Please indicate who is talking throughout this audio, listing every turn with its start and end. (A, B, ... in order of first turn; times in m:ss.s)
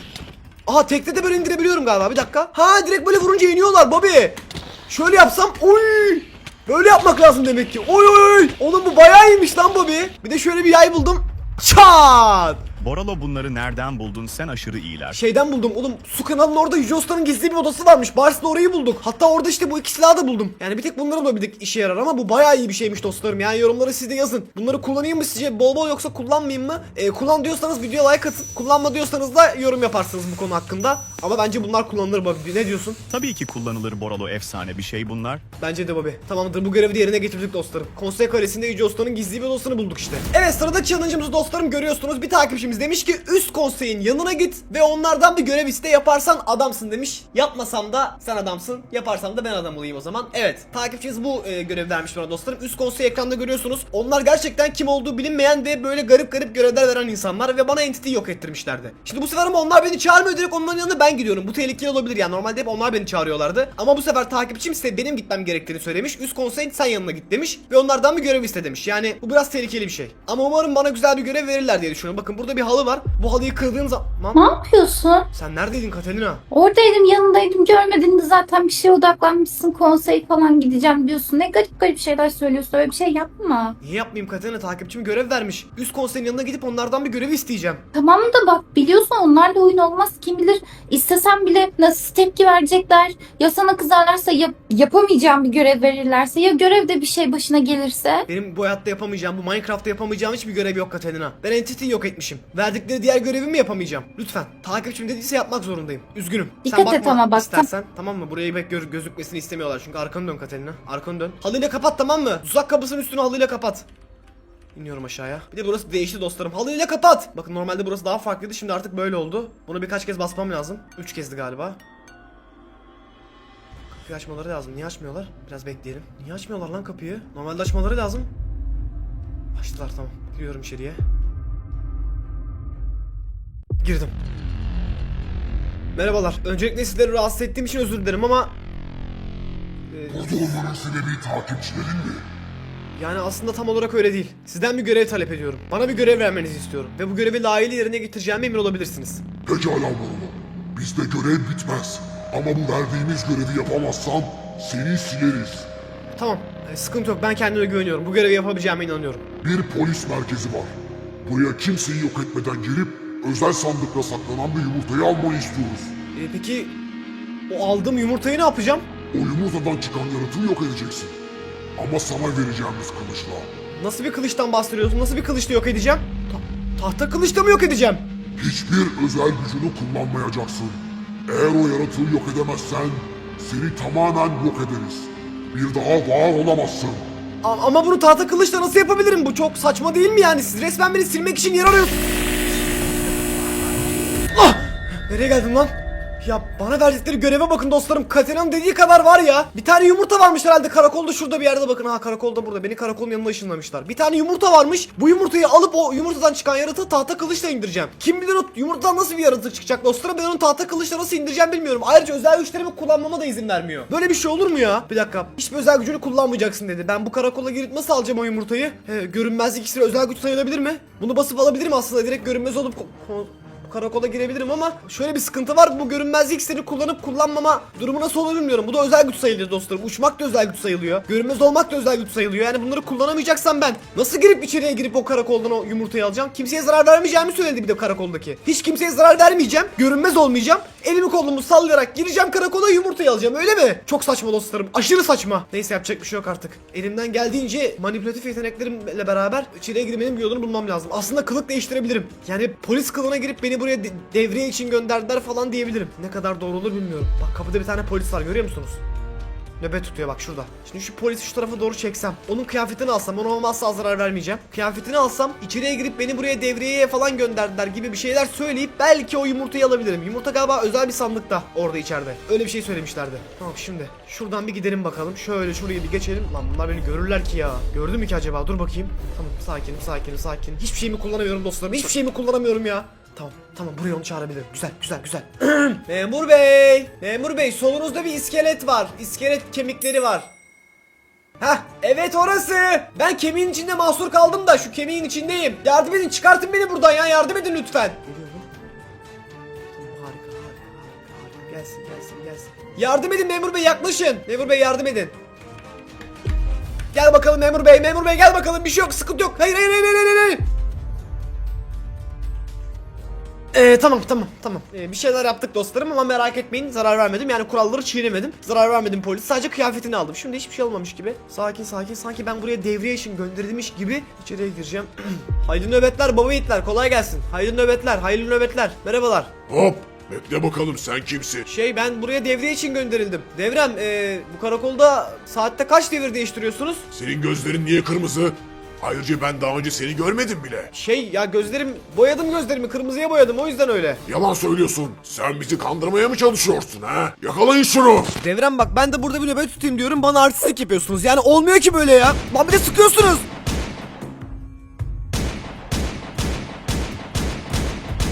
0:00.7-0:12.6 A
0:12.8-0:15.2 B
0:15.1-0:33.0 A
0:33.1-0:35.4 B
0:35.6-1:14.5 A
1:14.3-1:15.3 C
1:15.3-1:16.4 A
1:16.5-1:23.8 C
1:23.8-1:27.8 A
1:27.9-1:38.3 C
1:38.3-1:53.9 A
1:46.6-1:47.7 C
1:54.8-2:01.8 A
2:03.9-2:08.3 A
2:09.6-2:11.0 A
2:13.8-2:14.1 A
2:16.0-2:18.5 A
2:19.9-2:20.6 A
2:20.1-2:22.2 D
2:23.0-2:29.2 A
2:29.5-2:35.7 D
2:36.2-2:39.2 A
2:39.4-2:46.0 D
2:46.2-2:46.8 A
2:47.5-2:48.9 A
2:49.1-2:51.2 D
2:51.8-2:53.5 D
2:53.7-2:58.0 A
2:58.4-3:07.1 D
3:07.4-3:12.0 A
3:14.3-4:18.8 A
4:19.6-4:50.3 A
4:51.4-4:58.5 A
4:59.7-5:05.1 A
5:06.9-5:10.4 A
5:13.5-5:29.3 A
5:29.5-5:31.4 E
5:31.5-5:36.9 A
5:36.9-5:40.7 E
5:40.7-5:44.0 A
5:44.1-5:48.1 E
5:48.2-5:53.2 A